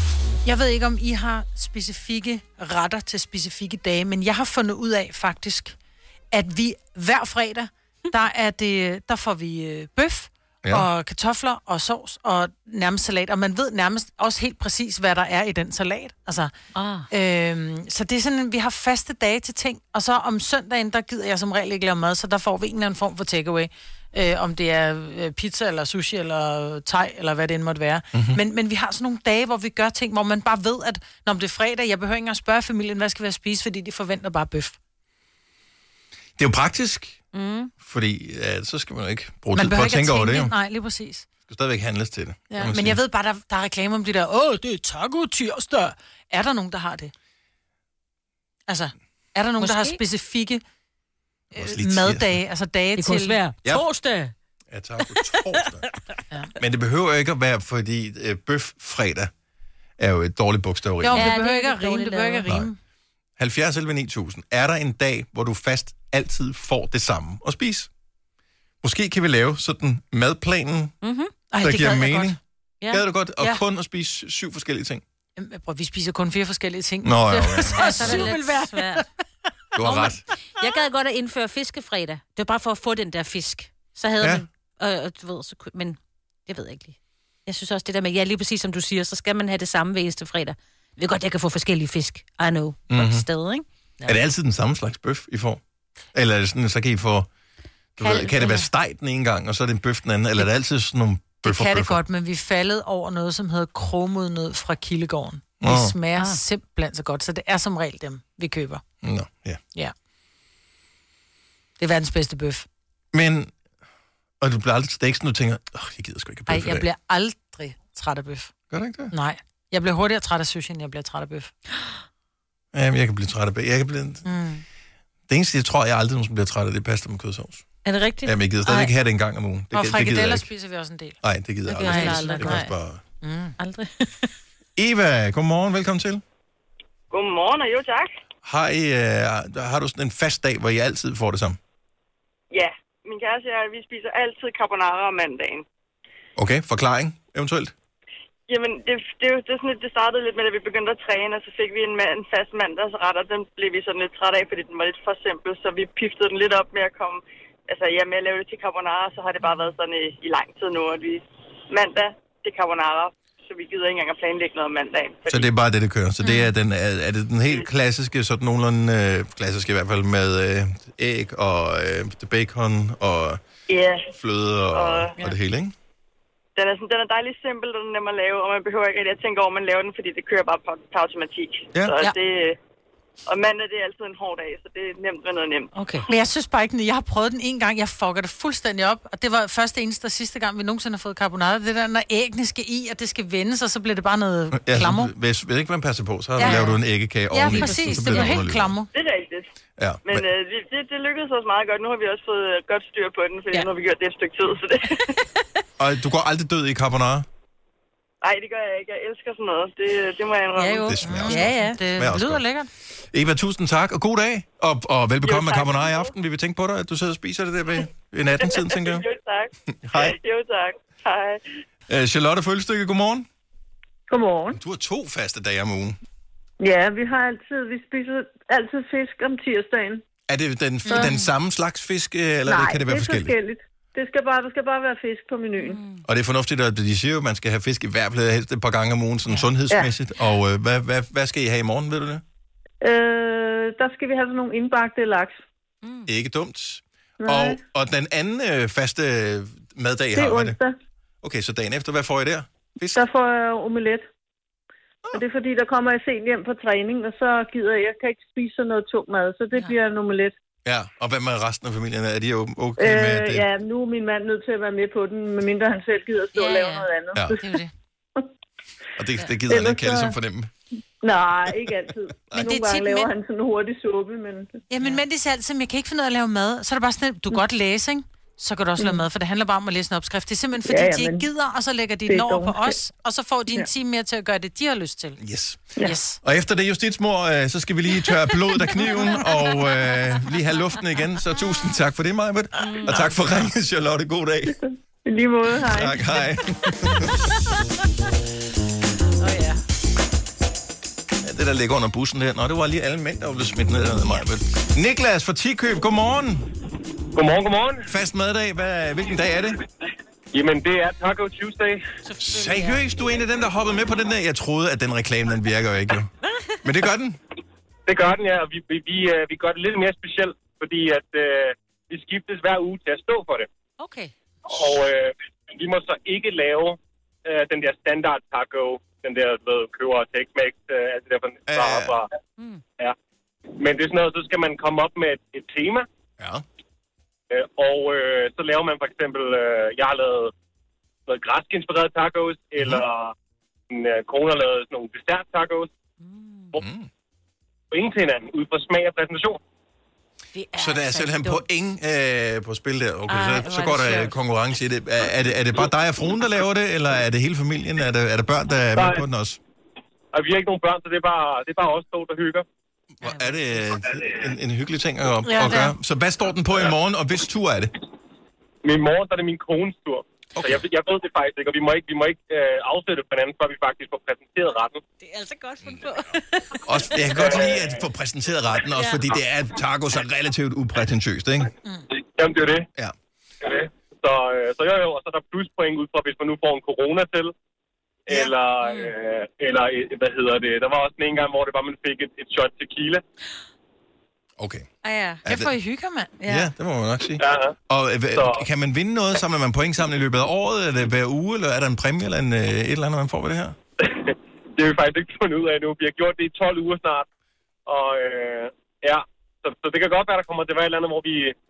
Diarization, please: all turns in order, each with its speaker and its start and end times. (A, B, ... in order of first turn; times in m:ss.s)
0:00.4-0:05.8 A
0:06.3-0:16.5 A
0:16.8-0:17.1 B
0:17.1-0:34.8 A
0:28.1-0:28.4 C
0:36.4-0:37.2 C
0:37.3-0:37.7 B
0:37.8-0:40.5 C
0:39.6-0:41.3 A
0:41.5-0:43.0 C
0:42.6-0:47.1 A
0:48.7-0:50.6 A
0:49.6-0:50.0 B
0:51.5-0:53.4 A
0:51.6-0:52.4 C
0:53.0-0:54.3 B
0:54.7-0:55.8 C
0:55.0-0:56.0 B
0:56.6-0:59.3 C
1:00.0-1:01.3 C
1:01.0-1:02.8 A
1:01.1-1:02.5 B
1:03.4-1:07.9 C
1:08.8-1:10.9 C
1:11.0-1:11.3 B
1:11.5-1:12.4 A
1:11.6-1:15.0 C
1:15.4-1:19.1 A
1:17.0-1:18.2 C
1:17.6-1:19.0 B
1:19.8-1:20.2 C
1:19.8-1:34.1 B
1:24.2-1:24.4 C
1:32.9-1:33.3 C
1:34.0-1:35.6 C
1:36.1-1:37.3 C
1:38.0-1:42.0 C
1:38.0-1:38.7 B
1:41.4-1:48.8 A
1:45.6-1:46.0 C
1:46.2-1:46.4 B
1:49.0-1:49.6 C
1:51.8-1:52.7 A
1:53.1-1:53.5 C
1:54.4-1:56.9 C
1:56.5-1:58.5 A
1:58.7-1:59.1 C
1:59.1-2:01.5 A
2:02.7-2:04.3 C
2:04.2-2:04.6 A
2:05.3-2:07.6 C
2:07.8-2:08.9 B
2:08.2-2:10.5 C
2:09.7-2:11.2 A
2:11.2-2:13.0 C
2:11.7-2:12.7 B
2:11.8-2:12.6 A
2:13.2-2:13.6 A
2:13.6-2:14.3 B
2:14.8-2:16.2 C
2:17.1-2:18.1 D
2:18.4-2:21.6 C
2:22.5-2:25.6 D
2:26.4-2:27.7 C
2:28.5-2:45.5 D
2:45.3-2:53.4 C
2:46.2-2:46.5 B
2:53.7-2:54.1 D
2:54.1-2:55.7 C
2:54.7-2:55.1 D
2:56.6-3:02.6 D
3:03.3-3:05.7 D
3:05.7-3:06.1 B
3:06.1-3:15.1 A
3:14.5-3:18.8 C
3:16.4-3:16.8 A
3:16.4-3:16.8 B
3:17.3-3:18.9 A
3:17.4-3:18.2 B
3:18.9-3:19.5 D
3:19.8-3:20.3 C
3:20.0-3:25.1 D
3:25.8-3:27.3 C
3:28.2-3:30.9 D
3:30.5-3:31.9 B
3:30.9-3:32.4 C
3:31.0-3:32.7 A
3:33.1-3:39.0 C
3:35.2-3:36.1 D
3:38.4-3:41.4 D
3:39.7-3:40.2 C
3:41.9-3:43.3 C
3:44.1-3:44.6 E
3:44.5-3:46.0 C
3:46.6-3:50.0 E
3:50.3-3:53.4 C
3:50.9-3:51.3 B
3:52.4-3:55.8 E
3:55.6-3:56.0 B
3:56.0-4:02.2 C
4:02.8-4:05.4 E
4:05.8-4:06.1 B
4:06.1-4:10.6 C
4:07.2-4:07.6 E
4:10.2-4:10.7 E
4:11.2-4:13.0 C
4:12.9-4:14.1 E
4:15.1-4:20.3 E
4:19.5-4:19.8 B
4:20.6-4:23.5 C
4:22.8-4:27.4 E
4:26.4-4:27.7 B
4:27.1-4:27.4 C
4:29.0-4:30.5 C
4:29.5-4:30.2 E
4:31.0-4:34.5 E
4:32.3-4:33.1 A
4:34.7-4:45.2 A
4:40.7-4:41.3 E
4:42.1-4:42.8 E
4:45.2-4:54.6 C
4:45.8-4:46.2 A
4:55.0-4:56.0 E
4:55.7-4:57.1 C
4:59.2-4:59.6 A
5:01.2-5:06.5 C
5:07.1-5:07.9 F
5:07.9-5:09.6 C
5:10.3-5:11.8 F
5:12.0-5:12.9 B
5:12.2-5:16.1 C
5:16.6-5:17.2 C
5:17.9-5:23.5 F
5:23.8-5:24.1 B
5:24.4-5:32.1 F
5:31.5-5:31.9 C
5:33.6-5:35.8 F
5:37.3-5:40.3 F
5:41.1-5:43.1 F
5:42.6-5:42.8 C
5:43.7-5:45.7 F
5:46.0-5:46.6 B
5:46.6-5:46.9 C
5:47.7-5:49.4 F
5:50.4-5:51.4 B
5:50.6-5:59.4 C
5:53.1-5:54.2 B
5:58.8-5:59.0 F
6:00.1-6:02.4 F
6:03.0-6:07.8 C
6:03.0-6:03.6 B
6:05.2-6:05.7 A
6:08.6-6:14.8 F
6:15.0-6:17.3 B
6:16.6-6:21.5 C
6:17.1-6:17.7 F
6:18.7-6:19.0 B
6:21.9-6:22.7 F
6:23.4-6:27.3 F
6:28.1-6:33.0 F
6:28.6-6:28.9 B
6:34.4-6:34.7 C
6:34.8-6:35.2 B
6:35.2-6:35.5 C
6:35.2-6:36.1 A
6:36.2-6:36.5 B
6:36.2-6:43.6 C
6:37.2-6:37.6 F
6:38.2-6:38.5 F
6:43.8-6:47.1 F
6:47.7-6:51.4 F